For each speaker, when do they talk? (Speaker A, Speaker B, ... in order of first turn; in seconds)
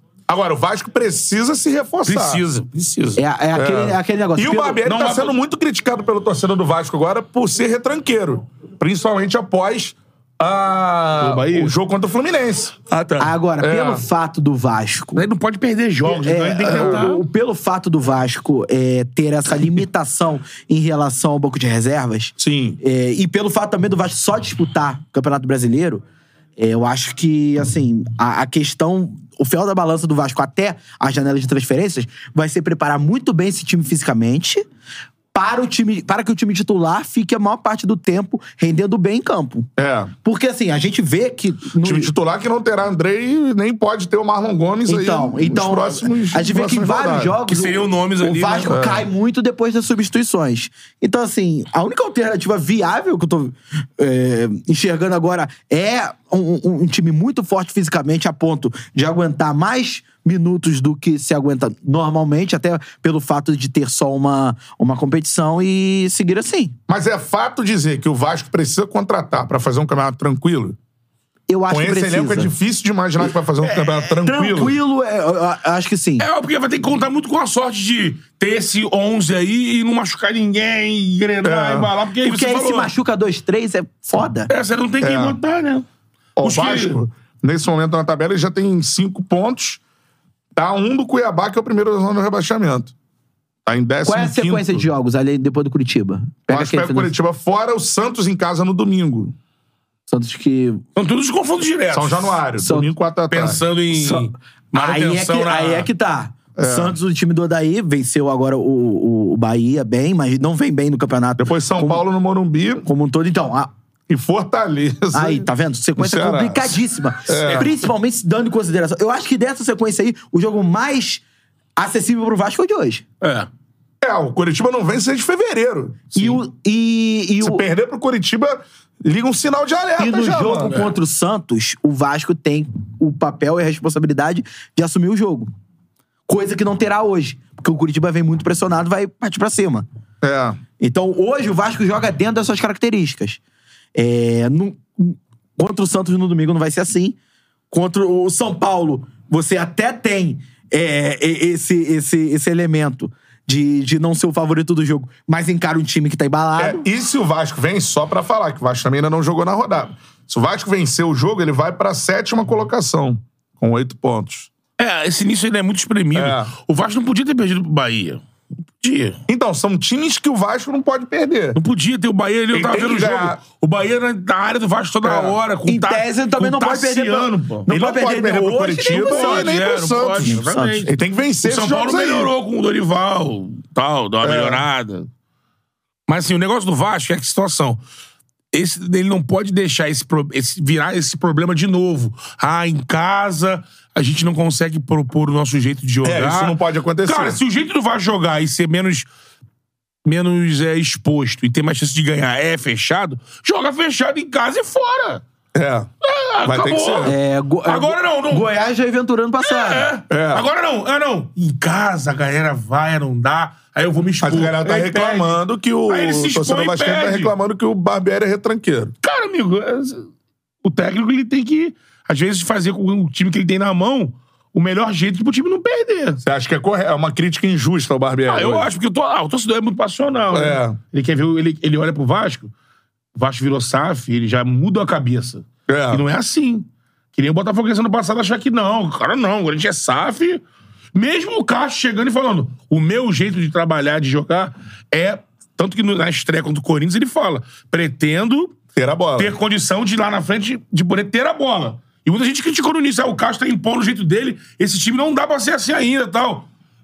Speaker A: 0.3-2.4, 3.5-12.8, 13.6-14.0, 16.7-17.0, 22.4-22.8, 39.8-40.1, 41.8-47.4, 48.7-49.0, 66.9-70.8, 71.7-74.8, 81.4-81.9, 85.0-85.4, 86.4-89.8, 90.6-92.9, 93.7-94.9, 96.5-99.3, 101.9-103.6, 106.6-107.0, 111.4-112.9, 114.1-117.7, 124.0-126.3, 127.4-130.8, 140.2-140.6, 156.6-164.5, 166.1-166.5, 169.3-171.6, 172.5-173.4, 175.0-175.4, 177.7-182.3, 184.2-184.6, 196.0-197.4, 205.6-205.9, 206.4-207.1, 210.1-210.4, 214.2-218.9, 226.2-228.7, 230.3-230.8, 235.7-236.0, 248.8-249.3
Speaker B: 2.1-3.2, 4.9-5.3, 11.2-11.7, 12.9-13.3, 15.2-17.2, 47.5-48.8, 73.6-74.1, 76.2-82.9, 84.5-85.9, 86.4-87.0, 101.0-102.4, 103.3-105.9, 117.4-117.8, 123.2-123.5, 164.8-168.2, 168.8-169.2, 171.6-177.7, 178.9-185.1, 186.1-187.8, 188.5-199.1, 200.1-205.2, 206.0-208.5, 209.4-217.3, 219.0-220.1, 220.6-226.2, 228.3-232.5, 233.2-240.4, 240.9-248.6, 249.2-256.5
Speaker C: 3.2-4.9, 13.2-15.2, 16.1-26.0, 26.6-34.6, 35.3-39.7, 40.2-42.1, 44.9-66.7, 71.5-72.5, 74.2-76.3, 82.2-84.5, 94.0-97.1, 100.1-100.8, 102.6-102.9, 103.9-112.0, 112.8-113.7, 115.1-121.2, 121.8-123.0, 126.2-127.6, 130.0-135.5, 136.3-139.9, 140.8-143.4, 143.9-147.2, 147.7-156.8, 175.7-179.6, 180.2-180.9, 207.0-209.9